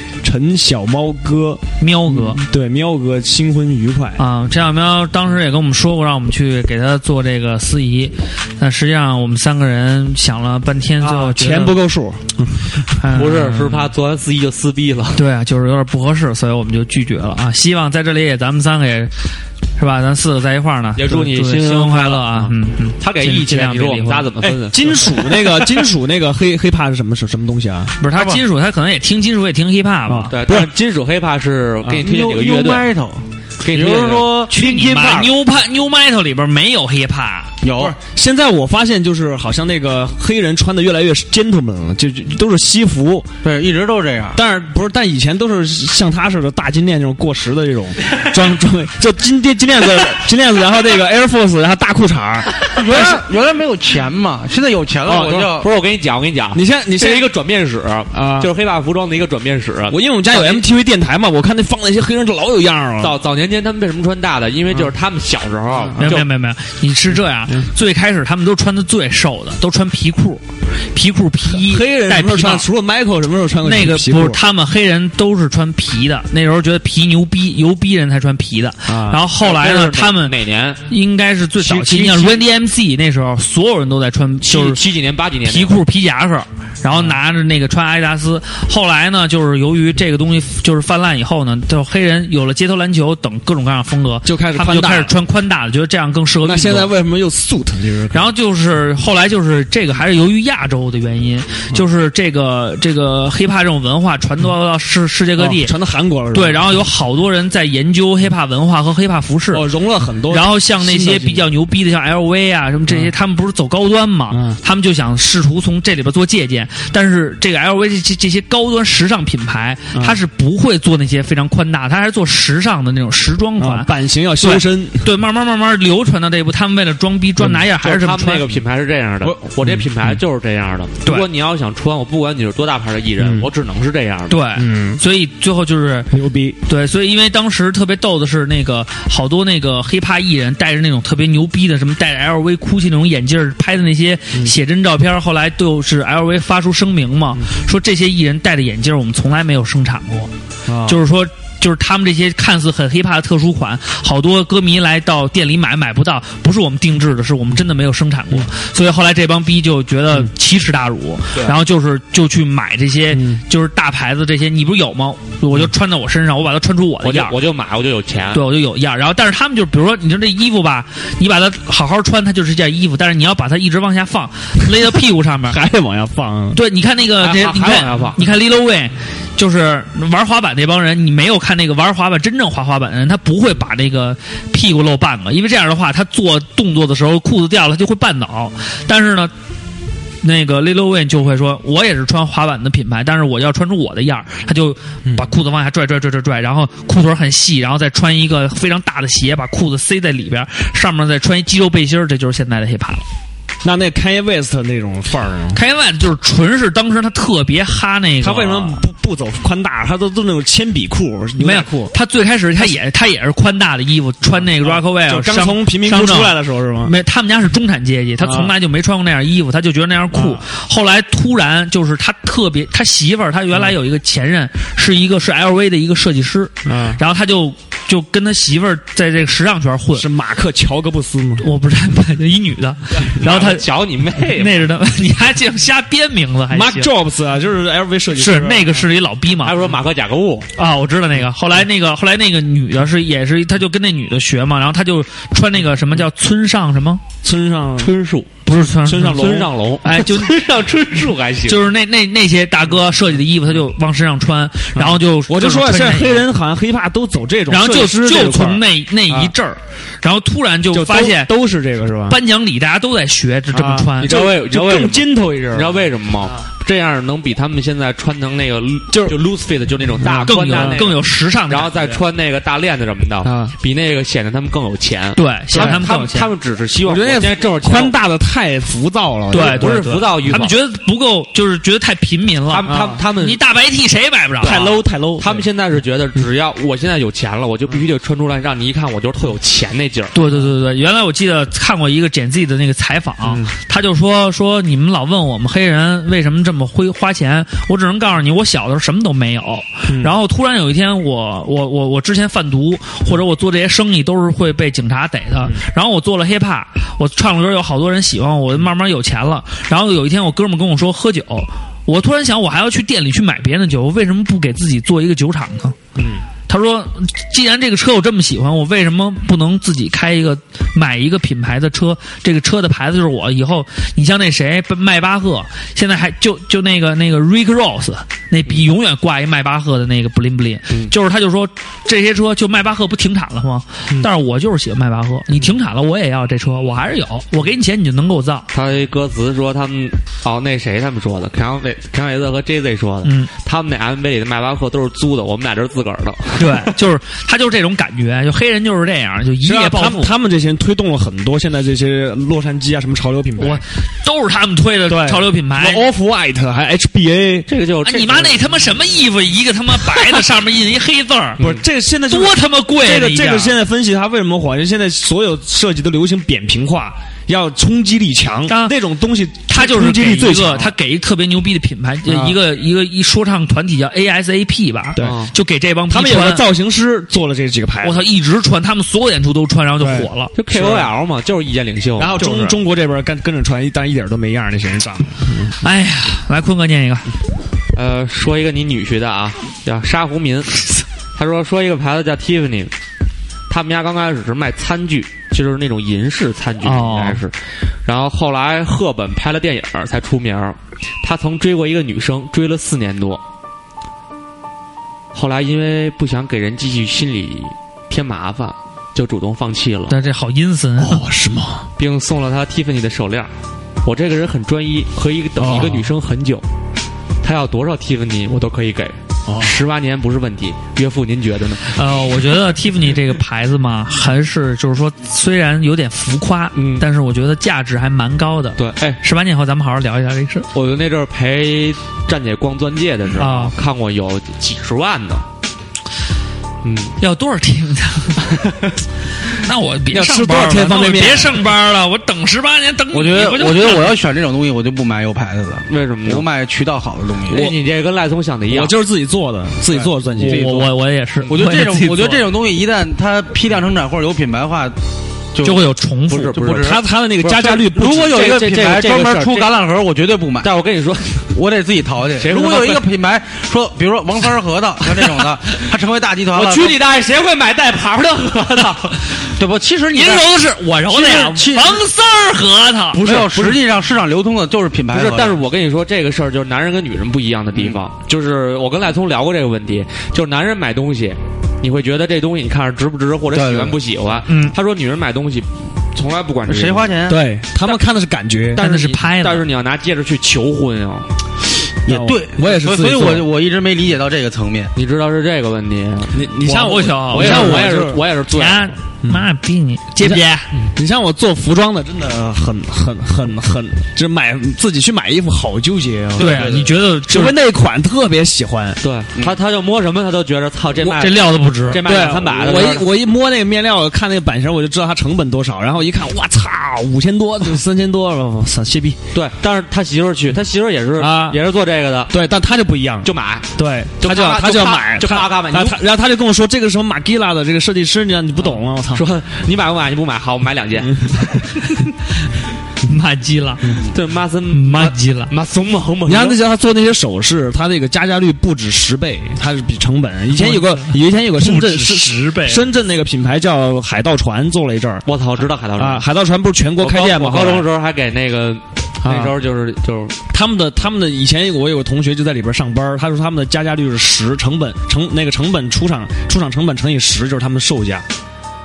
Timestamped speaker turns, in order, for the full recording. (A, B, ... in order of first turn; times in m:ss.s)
0:00.2-0:04.2 A
0:01.8-0:02.4 B
0:04.2-0:11.8 B
0:11.0-0:12.9 A
0:13.0-0:13.9 B
0:13.1-0:15.2 C
0:15.1-0:19.1 B
0:19.8-0:24.3 B
0:21.0-0:22.5 C
0:23.0-0:25.7 C
0:24.4-0:28.0 A
0:28.0-0:30.3 B
0:28.1-0:28.4 D
0:30.1-0:30.7 A
0:30.3-0:32.9 C
0:32.0-0:34.8 D
0:33.6-0:35.2 C
0:34.5-0:37.5 B
0:37.6-0:38.0 D
0:37.7-0:43.3 A
0:43.4-0:44.4 D
0:44.3-0:53.2 A
0:52.7-0:55.7 D
0:55.0-0:55.5 A
0:55.2-1:00.6 C
0:56.5-0:57.3 A
0:58.1-0:58.5 A
0:59.9-1:03.2 A
1:03.0-1:06.2 C
1:05.8-1:06.2 A
1:06.0-1:12.7 B
1:11.5-1:14.4 A
1:13.6-1:20.4 B
1:18.9-1:19.2 A
1:19.4-1:20.8 C
1:20.9-1:24.8 B
1:21.6-1:22.3 A
1:24.4-1:25.8 C
1:25.4-1:36.9 B
1:26.9-1:27.2 A
1:34.2-1:35.1 A
1:36.4-1:38.3 A
1:38.1-1:45.7 B
1:45.4-1:46.8 A
1:46.3-1:49.6 B
1:49.5-1:51.5 A
1:50.3-2:08.4 B
1:54.3-1:54.6 A
1:59.9-2:00.2 A
2:03.6-2:05.1 A
2:07.7-2:14.4 C
2:09.2-2:10.2 A
2:13.2-2:13.5 A
2:14.3-2:16.1 B
2:14.5-2:15.0 A
2:16.1-2:16.6 A
2:16.6-2:30.3 B
2:30.7-2:31.0 A
2:30.8-2:47.3 B
2:43.1-2:43.4 A
2:47.0-2:48.4 C
2:48.3-2:55.6 B
2:55.5-2:56.6 A
2:56.5-3:09.3 B
2:57.2-2:58.2 C
3:10.2-3:23.0 B
3:23.6-3:25.6 A
3:25.5-3:28.8 B
3:28.2-3:31.9 A
3:31.4-3:50.1 B
3:34.2-3:36.9 A
3:38.2-3:38.5 A
3:40.1-3:40.4 A
3:46.6-3:47.0 A
3:49.9-3:51.5 A
3:51.4-3:56.9 B
3:53.0-3:54.6 C
3:56.5-3:58.8 A
3:58.1-3:59.6 B
3:59.4-4:00.5 C
4:00.6-4:07.0 B
4:07.2-4:07.9 A
4:07.8-4:08.3 C
4:08.4-4:10.3 B
4:08.8-4:09.5 A
4:09.0-4:11.6 C
4:11.4-4:16.2 B
4:14.7-4:19.3 A
4:17.5-4:21.3 B
4:20.7-4:22.2 A
4:22.1-4:24.1 B
4:23.5-4:26.3 A
4:24.0-4:38.0 C
4:28.9-4:29.2 A
4:30.0-4:30.9 A
4:30.2-4:31.8 B
4:33.2-4:33.5 A
4:35.2-4:36.3 B
4:35.5-4:35.8 A
4:36.8-4:40.1 A
4:39.3-4:44.6 B
4:39.3-4:40.5 C
4:42.5-4:43.4 C
4:42.6-4:43.0 A
4:44.4-4:45.5 A
4:44.4-4:50.1 C
4:50.1-5:15.8 B
4:53.2-4:53.5 A
4:59.9-5:00.1 A
5:16.0-5:16.2 A
5:16.5-5:38.5 B
5:38.5-5:46.7 C
5:43.0-5:43.3 B
5:46.3-5:50.1 B
5:49.4-5:53.6 A
5:53.4-5:55.8 B
5:54.9-5:57.5 A
5:57.5-5:58.5 C
5:57.8-6:01.4 B
6:01.4-6:10.7 A
6:02.1-6:03.6 B
6:08.5-6:08.8 B
6:09.5-6:16.4 B
6:12.1-6:12.4 A
6:15.0-6:15.3 A
6:15.0-6:15.3 C
6:15.9-6:18.0 A
6:17.8-6:20.3 B
6:19.8-6:20.9 A
6:20.4-6:22.3 C
6:22.0-6:25.6 A
6:22.2-6:22.5 B
6:25.6-6:27.1 B
6:27.7-6:32.7 C
6:33.5-6:43.2 C
6:36.6-6:37.2 B
6:45.1-6:50.0 C
6:49.9-6:51.0 B
6:50.8-6:51.7 A
6:51.8-6:53.3 C
6:53.8-6:56.4 C
6:55.4-6:55.9 A
6:57.2-7:01.7 C
6:59.2-6:59.5 A
7:01.7-7:10.5 B
7:06.5-7:06.8 C
7:08.6-7:09.0 C
7:10.5-7:15.2 C
7:13.2-7:13.5 B
7:16.6-7:17.0 C
7:17.0-7:18.2 B
7:19.3-7:23.9 B
7:19.9-7:21.4 A
7:22.9-7:27.5 D
7:25.7-7:26.2 C
7:27.3-7:28.7 C
7:28.5-7:30.6 A
7:29.7-7:30.5 D
7:30.2-7:32.3 B
7:31.3-7:34.8 D
7:35.3-7:35.6 D
7:35.4-7:36.4 B
7:36.1-7:39.6 C
7:36.3-7:36.8 D
7:36.5-7:38.3 A
7:37.6-7:40.5 D
7:40.4-7:41.3 C
7:41.3-7:46.8 D
7:42.2-7:42.8 C
7:44.9-7:45.2 C
7:46.3-7:49.2 C
7:49.4-7:50.3 D
7:49.9-7:53.0 B
7:50.9-7:51.8 D
7:53.0-7:53.6 C
7:53.0-7:55.4 D
7:54.9-8:06.9 C
8:03.3-8:03.8 D
8:04.3-8:04.5 B
8:06.5-8:07.2 D
8:07.1-8:08.6 A
8:08.5-8:11.1 C
8:08.6-8:09.4 B
8:11.8-8:14.7 D
8:11.9-8:13.3 A
8:14.7-8:16.3 C
8:16.1-8:18.0 A
8:16.4-8:17.7 B
8:17.1-8:18.7 C
8:18.3-8:20.5 B
8:19.0-8:19.3 A
8:20.0-8:28.8 A
8:26.2-8:26.7 D
8:26.2-8:27.3 B
8:28.8-8:32.9 C
8:30.8-8:31.8 B
8:31.8-8:39.0 A
8:39.1-8:42.1 C
8:41.0-8:41.4 A
8:42.1-8:49.0 A
8:43.0-8:45.8 C
8:48.4-8:51.4 C
8:50.8-8:51.4 A
8:52.8-8:53.8 B
8:53.8-8:56.4 C
8:54.5-8:55.3 B
8:56.0-9:05.1 A
9:00.3-9:02.6 B
9:05.0-9:06.0 C
9:05.8-9:07.7 A
9:06.8-9:10.2 C
9:09.0-9:09.4 A
9:10.3-9:18.0 A